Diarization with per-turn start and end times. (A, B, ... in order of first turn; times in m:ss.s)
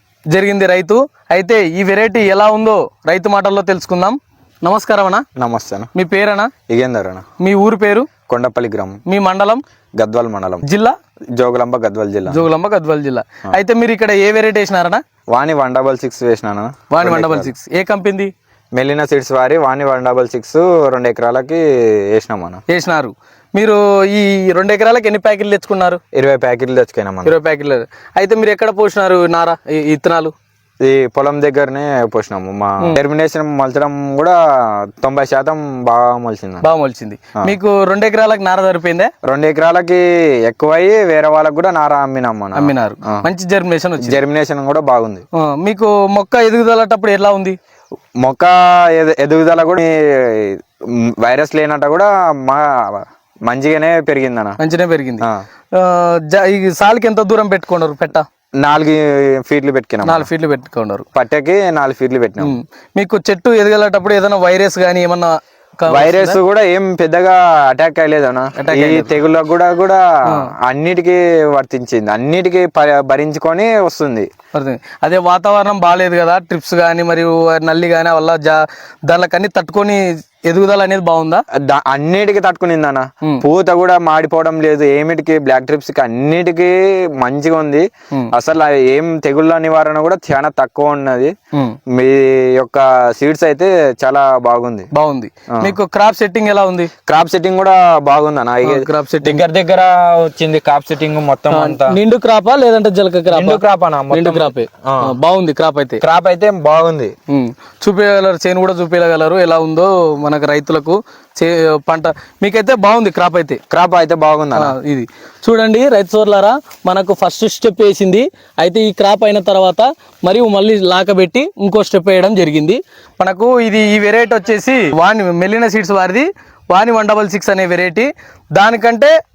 0:00.3-0:05.2 A
0:05.4-0:05.9 B
0:05.9-0:06.5 A
0:06.7-0:07.3 B
0:07.4-0:08.1 A
0:08.3-0:09.0 B
0:09.1-0:09.6 A
0:10.0-0:10.7 B
0:10.6-0:11.0 A
0:11.4-0:12.4 B
0:12.3-0:15.0 A
0:15.3-0:17.5 B
0:16.9-0:18.3 A
0:18.7-0:22.6 B
0:22.7-0:26.0 A
0:26.1-0:27.4 B
0:27.2-0:30.3 A
0:30.8-0:36.6 B
0:36.6-0:39.1 A
0:39.2-0:43.2 B
0:42.6-0:44.2 A
0:44.0-0:45.2 B
0:45.4-0:47.6 A
0:48.2-0:54.6 B
0:54.6-0:58.3 A
0:58.6-1:00.3 B
1:00.0-1:01.0 A
1:01.2-1:02.6 B
1:02.4-1:06.4 A
1:05.9-1:14.3 B
1:08.6-1:09.1 A
1:14.5-1:21.4 A
1:21.5-1:31.3 B
1:31.9-1:34.9 B
1:34.9-1:36.9 A
1:37.1-1:42.0 B
1:38.6-1:39.4 A
1:41.5-1:46.0 A
1:43.3-1:45.1 B
1:46.0-1:47.1 B
1:47.3-1:53.6 A
1:53.7-1:54.8 B
1:54.6-2:09.1 A